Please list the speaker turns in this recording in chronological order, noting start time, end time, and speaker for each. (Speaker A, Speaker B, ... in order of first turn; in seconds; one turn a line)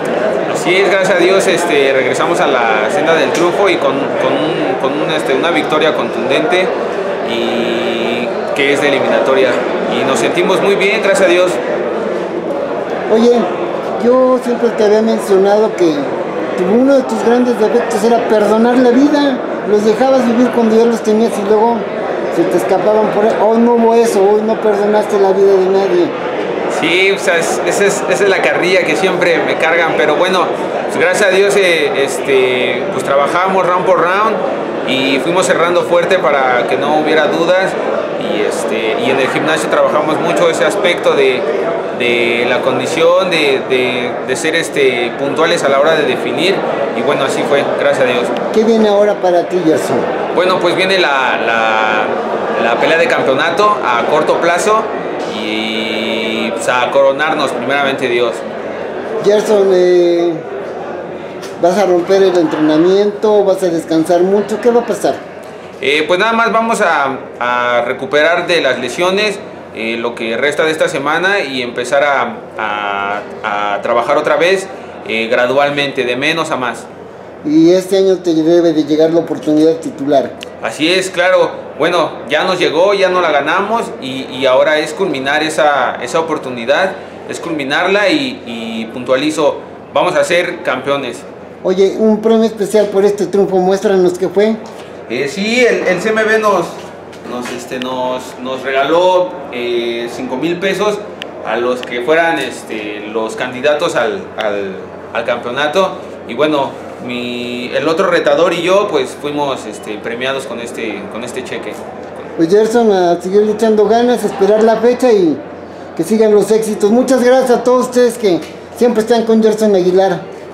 Speaker A: 0.5-6.7
Speaker A: 7.2-11.6
Speaker B: 13.1-26.1
Speaker A: 26.7-48.3
Speaker B: 48.5-50.1
Speaker A: 50.3-58.4
Speaker B: 59.2-60.4
Speaker B: 61.6-65.2
Speaker A: 65.8-76.9
Speaker B: 77.4-80.3
Speaker A: 80.6-91.2
Speaker B: 91.6-94.6
Speaker A: 95.1-111.8
Speaker B: 112.4-115.4
Speaker B: 116.0-120.2